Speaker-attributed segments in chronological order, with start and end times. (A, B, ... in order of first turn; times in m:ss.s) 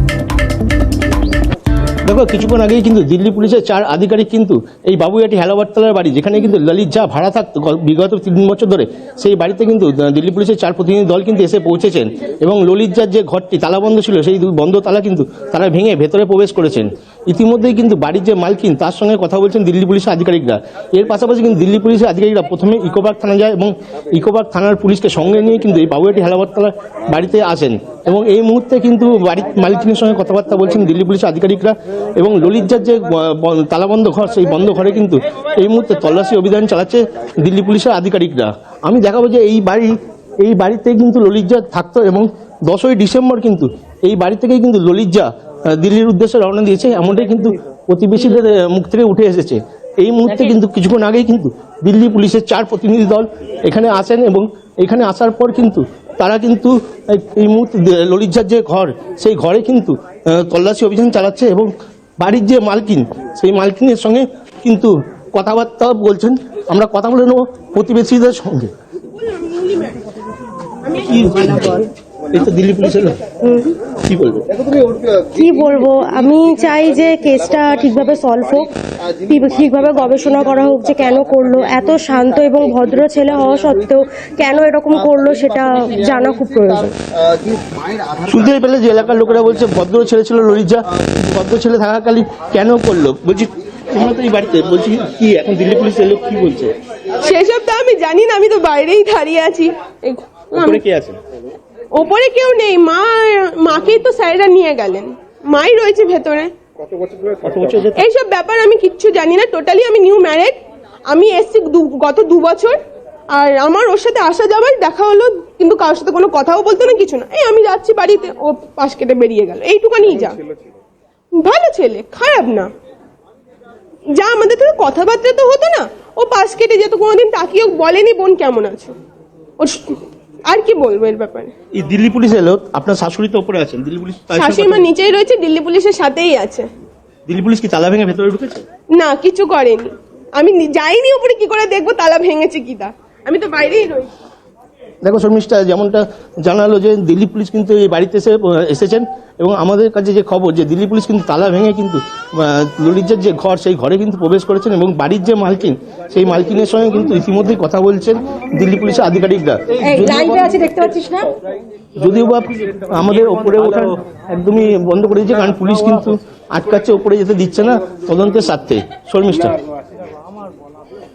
0:02.0-1:08.7 A
1:09.2-1:10.1 B
1:10.9-1:11.3 B
1:11.0-1:13.2 A
1:13.4-1:13.8 C
1:14.0-1:14.5 A
1:15.2-1:27.0 C
1:28.2-1:36.7 A
1:37.2-1:40.8 B
1:40.5-1:41.2 A
1:41.9-1:46.5 B
1:47.4-1:48.0 A
1:48.0-1:52.8 B
1:53.3-2:00.4 B
2:01.4-2:02.7 B
2:04.2-2:09.0 B
2:09.6-2:11.5 B
2:11.7-2:14.9 A
2:14.3-2:16.7 B
2:17.3-2:18.6 A
2:19.0-2:24.1 B
2:25.0-2:40.4 A
2:39.9-2:41.3 C
2:42.0-2:49.6 A